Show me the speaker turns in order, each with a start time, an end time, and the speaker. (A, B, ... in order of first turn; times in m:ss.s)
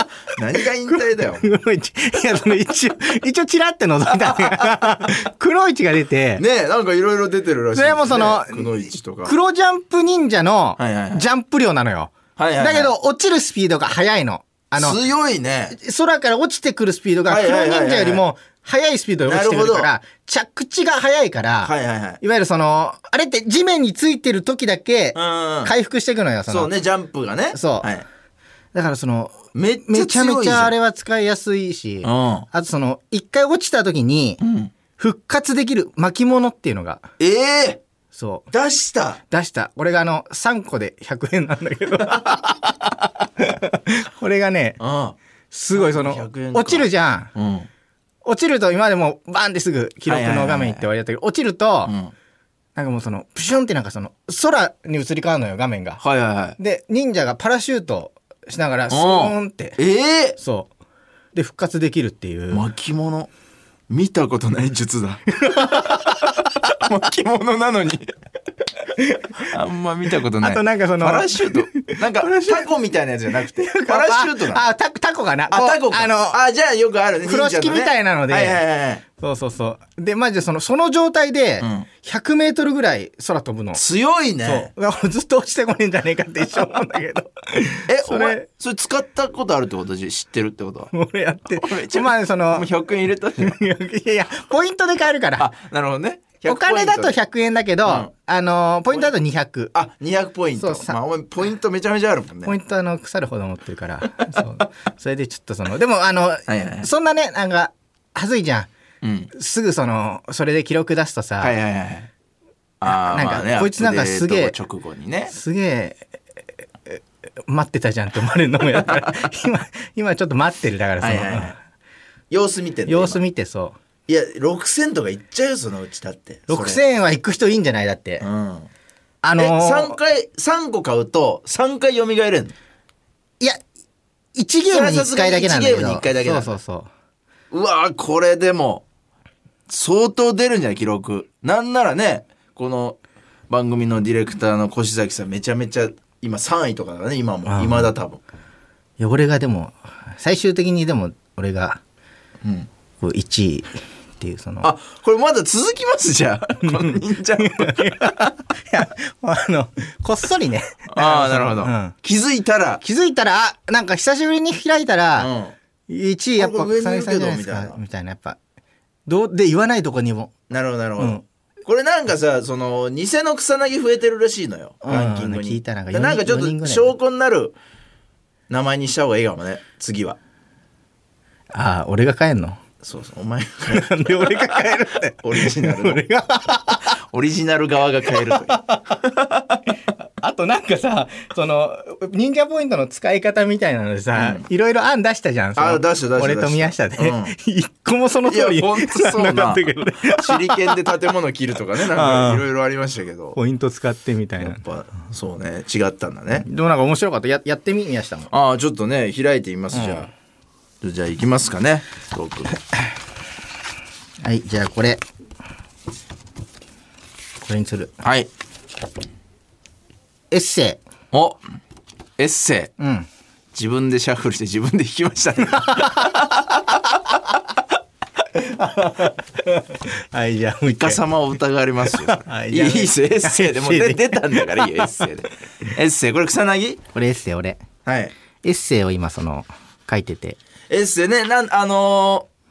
0:00.3-0:01.5 A
0:00.9-0:06.4 B
0:04.2-0:04.8 A
0:06.4-0:09.3 A
0:07.7-0:08.7 B
0:09.2-0:15.0 B
0:10.8-0:11.2 A
0:12.4-0:12.9 A
0:14.8-0:15.8 A
0:15.7-0:26.7 B
0:17.2-0:18.2 A
0:19.2-0:19.9 A
0:21.6-0:22.2 A
0:25.1-0:25.7 A
0:26.5-0:28.0 A
0:27.5-0:27.9 B
0:28.7-0:34.4 B
0:29.5-0:30.7 A
0:32.0-0:32.4 A
0:34.4-0:34.7 A
0:35.0-0:37.0 B
0:37.2-0:37.8 A
0:38.1-0:38.5 B
0:38.5-0:39.2 A
0:39.3-0:44.8 B
0:44.8-0:45.2 A
0:45.5-0:47.3 B
0:45.7-0:47.7 A
0:48.2-0:51.9 B
0:50.0-0:50.9 A
0:51.8-0:52.1 A
0:52.8-0:56.0 B
0:56.0-0:56.6 A
0:56.6-0:59.8 B
0:58.9-1:00.4 A
1:00.4-1:00.7 B
1:01.3-1:02.6 B
1:02.5-1:03.3 A
1:03.9-1:08.1 A
1:05.4-1:06.4 B
1:09.0-1:09.5 B
1:09.4-1:14.6 A
1:10.4-1:12.7 B
1:13.4-1:16.4 B
1:15.5-1:19.0 A
1:17.2-1:18.6 B
1:19.2-1:23.8 B
1:21.6-1:21.9 A
1:23.7-1:24.7 A
1:24.4-1:28.4 B
1:27.9-1:30.9 A
1:30.9-1:32.7 B
1:31.5-1:33.6 A
1:33.4-1:35.5 B
1:35.4-1:37.2 A
1:36.4-1:39.7 B
1:39.7-1:42.6 A
1:40.6-1:41.0 B
1:42.4-1:48.7 B
1:46.5-1:46.9 A
1:49.0-1:49.3 A
1:49.3-1:51.5 B
1:51.4-1:52.1 A
1:52.8-1:55.3 A
1:52.9-1:54.6 B
1:55.3-1:56.0 B
1:56.9-2:01.6 B
2:01.0-2:01.5 A
2:02.3-2:03.2 A
2:02.9-2:03.8 B
2:04.1-2:06.8 A
2:06.5-2:08.2 B
2:08.2-2:08.7 A
2:09.2-2:10.0 B
2:09.4-2:12.5 A
2:14.3-2:16.9 B
2:14.7-2:16.6 A
2:17.5-2:18.8 A
2:19.7-2:23.0 A
2:23.5-2:28.2 A
2:27.5-2:27.9 B
2:29.0-2:31.8 B
2:32.4-2:32.7 A
2:33.0-2:34.7 B
2:34.6-2:38.3 A
2:36.7-2:41.9 B
2:40.9-2:42.8 A
2:42.8-2:45.3 B
2:45.2-2:45.6 A
2:45.9-2:48.4 B
2:46.4-2:47.8 A
2:49.1-2:50.3 B
2:50.5-2:57.6 A
2:51.0-2:51.2 B
2:54.8-2:56.9 B
2:58.5-3:00.2 A
3:01.5-3:02.6 B
3:02.8-3:06.0 A
3:03.7-3:06.9 B
3:06.8-3:09.6 A
3:08.1-3:08.8 B
3:10.2-3:20.8 B
3:14.1-3:14.4 A
3:15.6-3:17.3 A
3:18.2-3:23.4 A
3:21.8-3:22.4 B
3:23.3-3:24.6 B
3:24.4-3:26.4 A
3:26.3-3:28.3 B
3:28.3-3:30.1 A
3:29.7-3:30.1 B
3:30.8-3:32.5 A
3:34.2-3:35.0 B
3:37.4-3:37.9 B
3:38.0-3:38.3 A
3:40.3-3:40.8 B
3:41.1-3:41.4 A
3:42.2-3:42.7 A
3:42.8-3:43.1 B
3:43.5-3:46.6 A
3:45.5-3:46.2 B
3:48.3-3:51.0 B
3:50.7-3:56.8 A
3:51.9-3:54.9 B
3:56.9-3:57.6 B
3:57.8-3:58.1 A
3:58.4-4:00.4 B
4:00.7-4:02.3 A